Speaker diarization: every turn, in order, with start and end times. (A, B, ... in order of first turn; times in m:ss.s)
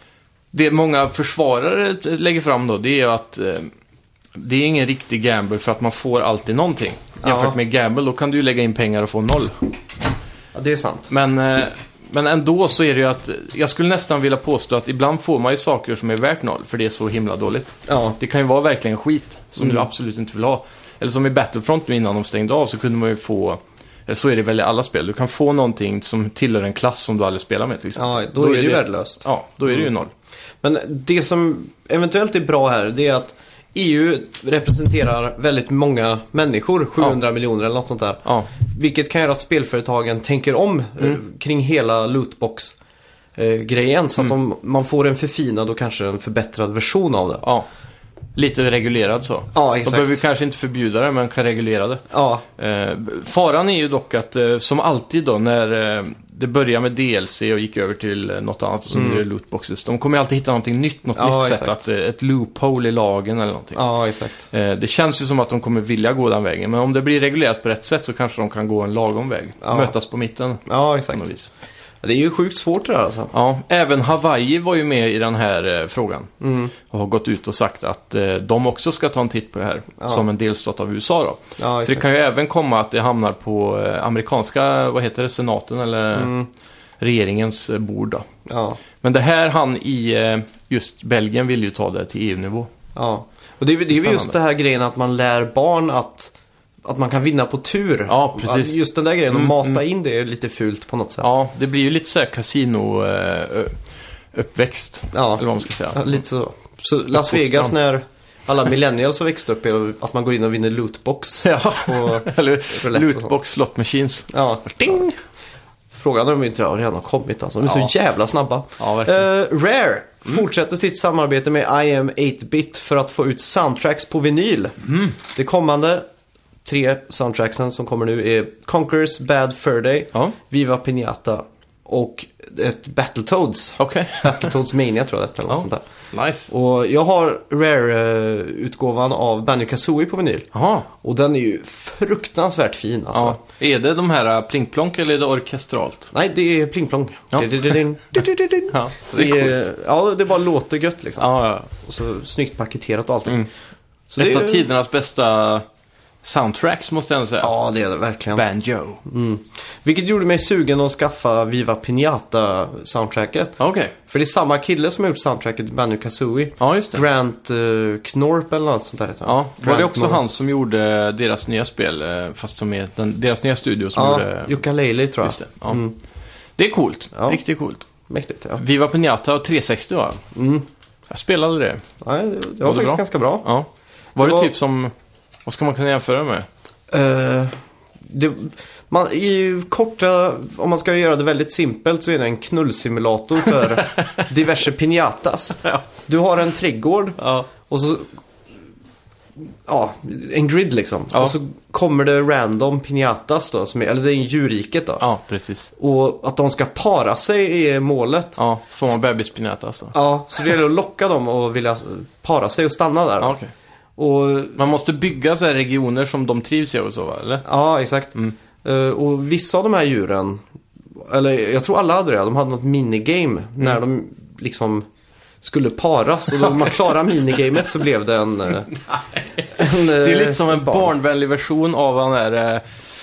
0:00.5-0:03.7 A
0:04.4-0:09.6 A
0:07.2-0:07.6 B
0:10.5-0:11.1 B
0:11.1-0:30.1 A
0:17.9-0:18.2 B
0:19.6-0:19.8 B
0:28.0-0:29.9 B
0:30.6-0:42.8 B
0:38.2-0:38.5 A
0:43.4-0:47.4 B
0:47.4-0:47.7 A
0:48.4-0:52.0 A
0:49.5-0:50.2 B
0:52.1-0:52.4 B
0:52.6-1:03.8 A
0:58.9-0:59.2 B
1:01.1-1:01.8 B
1:03.7-1:04.4 B
1:04.5-1:11.5 A
1:09.6-1:09.9 B
1:10.6-1:11.3 B
1:12.0-1:13.3 B
1:13.3-1:16.3 A
1:16.4-1:16.7 B
1:16.9-1:26.3 A
1:21.6-1:22.0 B
1:26.1-1:26.5 B
1:27.0-1:28.3 A
1:28.5-1:28.8 B
1:29.0-1:32.7 A
1:32.9-1:41.3 B
1:33.9-1:34.3 A
1:38.1-1:38.8 A
1:39.3-1:39.8 A
1:41.2-1:43.8 A
1:44.3-1:46.1 A
1:45.1-1:53.3 B
1:47.1-1:47.7 A
1:51.4-1:55.2 A
1:54.3-1:55.0 B
1:55.9-2:06.0 B
1:58.8-1:59.3 A
2:04.8-2:05.2 A
2:06.6-2:15.8 B
2:13.8-2:14.5 A
2:15.5-2:16.5 A
2:16.5-2:23.4 B
2:20.5-2:20.9 A
2:23.1-2:26.1 A
2:26.1-2:33.4 B
2:27.3-2:27.8 A
2:28.7-2:29.6 A
2:31.2-2:31.7 A
2:34.1-2:34.7 B
2:34.2-2:35.6 A
2:36.2-2:37.5 A
2:37.4-2:38.4 B
2:38.3-2:39.0 A
2:39.0-2:50.2 B
2:43.6-2:43.9 A
2:46.6-2:47.0 A
2:49.2-2:54.6 A
2:53.9-2:56.0 B
2:55.2-2:55.8 A
2:56.6-2:57.9 A
2:57.1-2:57.4 B
2:58.1-2:58.6 B
2:58.6-3:00.2 A
3:00.3-3:00.6 B
3:01.1-3:01.8 A
3:02.0-3:03.4 B
3:02.6-3:04.9 A
3:04.2-3:04.5 B
3:05.4-3:06.5 A
3:06.9-3:18.1 B
3:13.9-3:14.2 A
3:17.2-3:17.5 A
3:19.6-3:25.0 B
3:25.0-3:25.7 A
3:25.8-3:28.4 B
3:28.4-3:30.0 A
3:29.9-3:33.4 B
3:33.2-3:33.5 A
3:34.0-3:34.6 B
3:34.6-3:37.4 A
3:37.4-3:40.4 B
3:41.0-3:44.8 B
3:45.4-3:48.7 B
3:48.8-3:52.6 A
3:49.5-3:50.9 B